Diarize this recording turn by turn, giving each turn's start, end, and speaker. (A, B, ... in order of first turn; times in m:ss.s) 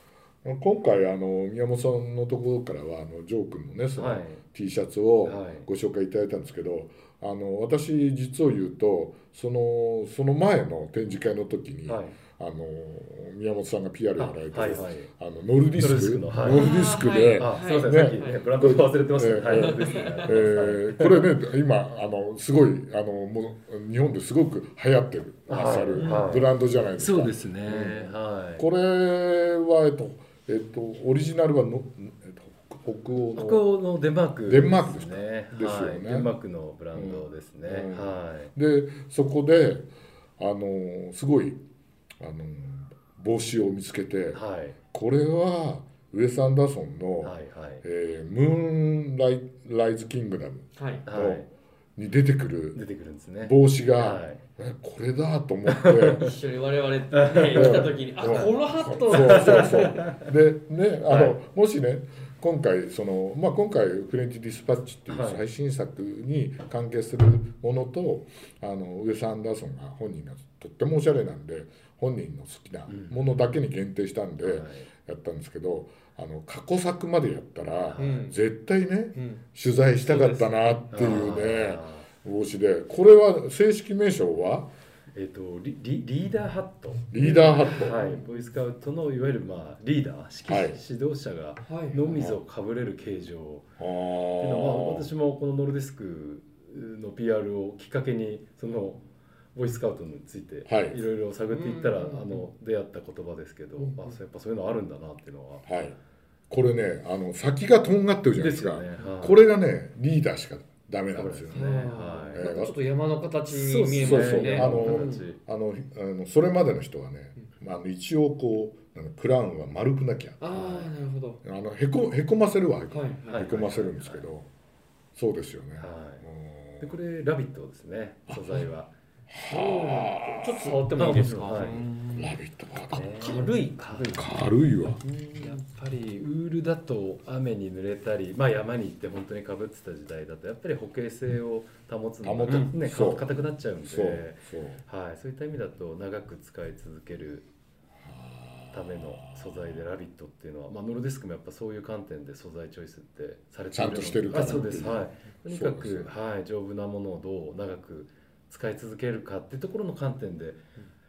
0:00.4-0:33.6 A
0:04.0-0:04.4 B
0:05.2-0:05.7 B
0:11.8-0:12.2 B
0:14.2-0:15.1 B
0:15.8-0:16.7 B
0:16.5-0:18.5 C
0:17.4-0:21.3 B
0:19.5-0:20.3 C
0:25.5-0:28.6 B
0:25.9-0:26.4 C
0:33.3-0:38.5 B
0:34.5-0:36.3 A
0:36.9-0:41.6 A
0:42.2-0:44.4 A
0:44.3-0:44.8 B
0:44.9-0:51.4 A
0:47.2-0:47.8 B
0:50.8-0:51.0 C
0:51.0-0:51.5 B
0:52.0-0:52.8 A
0:52.7-0:54.4 B
0:53.4-0:56.3 A
0:55.7-0:56.3 B
0:56.1-1:00.1 C
0:57.1-0:58.5 B
0:57.5-1:24.7 A
0:59.1-1:00.3 B
1:01.1-1:01.3 B
1:05.1-1:05.4 B
1:12.9-1:13.2 B
1:14.4-1:14.9 B
1:17.9-1:18.3 B
1:18.0-1:18.4 C
1:19.1-1:19.4 C
1:20.0-1:21.0 C
1:20.9-1:22.1 B
1:25.1-1:33.7 B
1:27.1-1:28.0 A
1:27.2-1:28.4 C
1:30.4-1:30.8 A
1:31.6-1:32.0 C
1:32.1-1:32.4 A
1:33.8-1:35.1 A
1:34.4-1:39.0 B
1:39.5-1:45.7 B
1:40.7-1:41.0 A
1:41.5-1:42.5 C
1:43.8-1:44.2 C
1:45.6-1:46.0 A
1:46.5-1:51.7 A
1:48.4-1:49.4 B
1:51.1-1:52.4 B
1:51.5-1:55.2 C
1:52.3-1:52.8 A
1:53.5-1:55.4 B
1:54.0-2:00.7 A
2:00.4-2:01.4 C
2:00.5-2:00.9 B
2:01.4-2:04.5 A
2:02.9-2:03.5 C
2:03.3-2:04.3 B
2:05.1-2:07.0 A
2:05.8-2:06.2 B
2:06.8-2:08.9 B
2:08.3-2:08.6 A
2:09.3-2:11.6 A
2:09.5-2:12.4 C
2:11.0-2:11.8 B
2:12.1-2:13.4 A
2:12.9-2:14.3 B
2:13.0-2:14.3 C
2:14.1-2:15.0 A
2:15.0-2:15.6 C
2:15.4-2:27.5 B
2:22.2-2:23.3 A
2:23.8-2:24.8 A
2:28.0-2:29.8 A
2:28.7-2:40.6 B
2:33.7-2:36.1 A